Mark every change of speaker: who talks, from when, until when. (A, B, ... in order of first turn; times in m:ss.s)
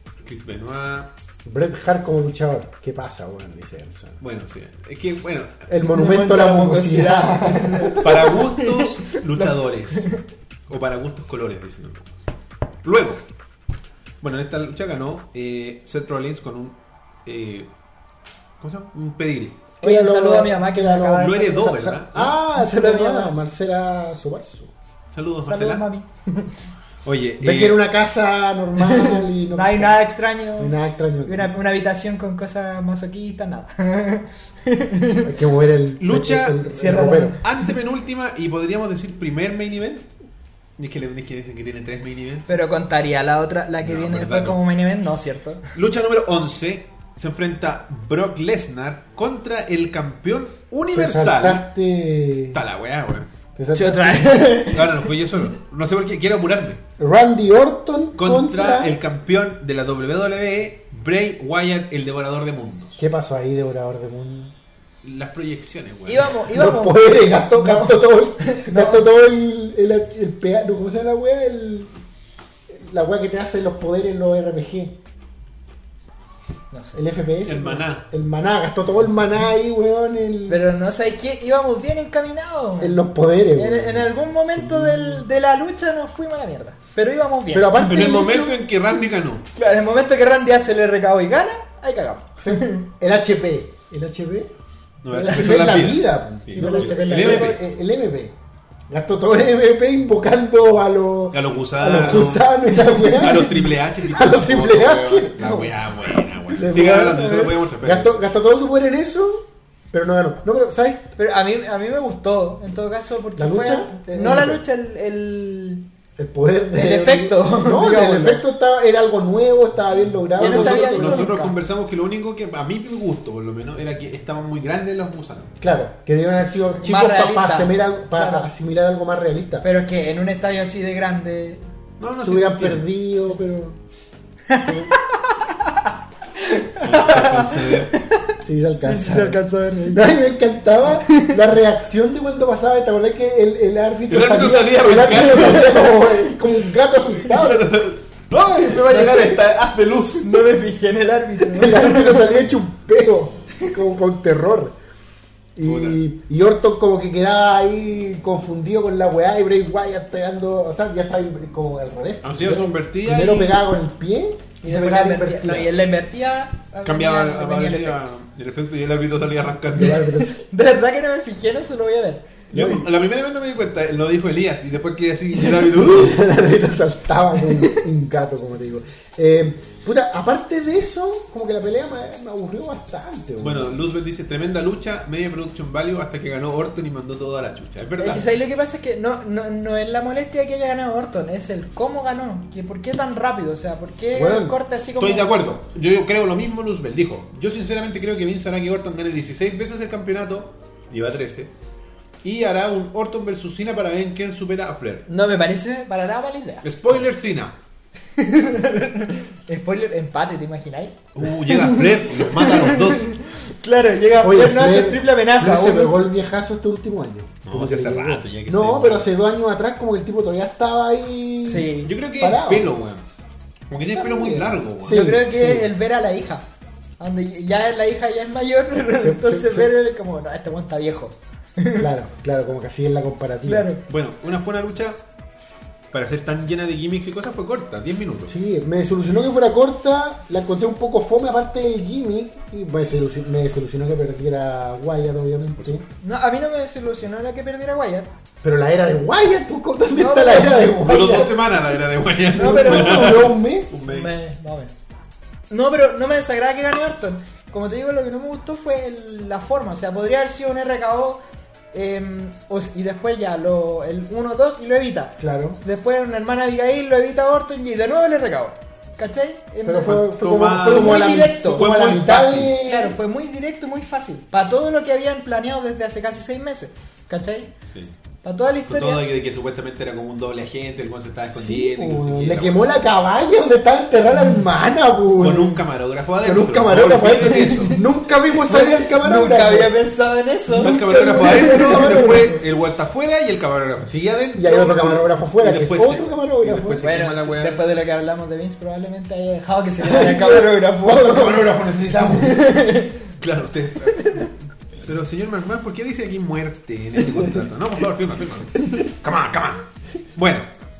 0:00.2-0:01.1 A
0:01.4-0:04.2 B
0:04.2-0:05.7 A
0:05.7-0:08.3 B
0:05.9-0:10.2 C
0:08.0-0:10.1 A
0:10.7-0:12.1 A
0:12.8-0:13.2 A
0:14.2-0:17.7 A
0:18.6-0:19.6 A
0:19.8-0:23.3 C
0:19.8-0:24.7 B
0:21.2-0:22.3 A
0:25.1-0:25.8 A
0:25.4-0:26.5 C
0:27.0-0:27.8 A
0:27.4-0:30.0 B
0:28.8-0:35.3 C
0:30.6-0:31.5 B
0:35.2-0:37.4 B
0:36.0-0:40.1 A
0:36.7-0:37.4 C
0:40.8-0:42.5 A
0:42.5-0:45.7 C
0:43.8-0:44.6 A
0:45.7-0:51.7 A
0:50.9-0:52.6 B
0:52.5-0:53.3 A
0:53.6-0:54.5 B
0:53.7-0:55.1 C
0:54.6-0:56.8 A
0:57.0-0:59.0 B
0:58.2-1:03.0 A
1:03.0-1:04.5 B
1:05.0-1:06.4 A
1:06.0-1:09.0 C
1:06.5-1:11.9 B
1:12.7-1:15.0 B
1:16.7-1:17.0 C
1:16.9-1:20.6 B
1:17.4-1:18.0 A
1:20.5-1:23.0 C
1:22.8-1:25.2 B
1:23.5-1:27.8 C
1:27.5-1:28.6 B
1:27.8-1:29.4 A
1:29.5-1:32.9 C
1:32.4-1:34.5 B
1:35.0-1:37.6 A
1:35.1-1:38.3 B
1:35.2-1:35.6 C
1:36.5-1:37.6 C
1:38.9-1:45.8 B
1:41.3-1:48.2 A
1:46.5-1:51.1 B
1:46.9-1:47.5 C
1:51.2-1:55.8 C
1:53.4-1:54.6 B
1:56.2-2:01.3 B
1:56.7-1:58.4 C
1:59.8-2:05.6 A
2:00.4-2:01.6 C
2:05.6-2:09.6 B
2:06.8-2:08.5 C
2:09.6-2:11.6 C
2:12.0-2:12.9 A
2:12.2-2:13.8 B
2:14.5-2:15.0 C
2:14.7-2:14.9 A
2:16.4-2:20.1 C
2:16.8-2:18.0 A
2:18.4-2:27.8 B
2:21.1-2:21.4 C
2:24.1-2:26.1 A
2:25.3-2:25.7 C
2:27.0-2:30.5 A
2:28.8-2:29.4 C
2:30.2-2:32.3 C
2:31.5-2:34.7 B
2:35.6-2:45.7 B
2:35.6-2:36.0 A
2:42.2-2:43.6 A
2:44.6-2:48.0 C
2:46.8-2:50.2 A
2:49.7-2:50.4 B
2:50.0-2:52.4 C
2:52.5-2:56.3 A
2:52.5-2:52.9 B
2:55.5-3:03.8 B
3:03.4-3:08.3 A
3:08.0-3:15.4 C
3:14.1-3:14.6 B
3:15.0-3:21.5 A
3:22.2-3:25.0 A
3:25.1-3:26.6 C
3:26.6-3:27.6 A
3:28.2-3:36.0 C
3:31.1-3:33.1 A
3:34.2-3:42.7 B
3:37.4-3:39.1 A
3:41.4-3:41.9 C
3:41.8-3:43.0 A
3:43.7-3:45.2 A
3:43.9-3:45.7 B
3:44.9-3:46.4 C
3:47.0-3:51.9 C
3:48.9-3:49.7 B
3:51.8-3:53.7 B
3:53.4-3:53.8 C
3:53.9-3:55.0 A
3:55.9-3:58.3 A
3:58.3-4:05.8 B
4:06.0-4:08.1 C
4:08.4-4:11.6 B
4:09.9-4:10.8 C
4:10.8-4:14.1 A
4:12.3-4:13.8 B
4:12.3-4:13.3 C
4:13.8-4:14.8 C
4:15.5-4:21.2 C
4:21.7-4:31.8 C
4:25.2-4:25.6 B
4:29.6-4:33.0 B
4:29.8-4:32.5 A
4:32.6-4:37.5 C
4:38.2-4:39.0 C
4:38.7-4:42.7 A
4:41.3-4:45.6 B
4:45.2-4:47.8 A
4:46.2-4:49.7 B
4:47.3-4:47.8 C
4:48.4-4:52.4 C
4:50.5-4:57.6 A
4:50.6-4:52.3 B
4:54.3-4:56.9 B
4:56.8-5:03.1 C
4:59.8-5:02.5 B
5:03.2-5:10.5 A
5:03.9-5:04.3 C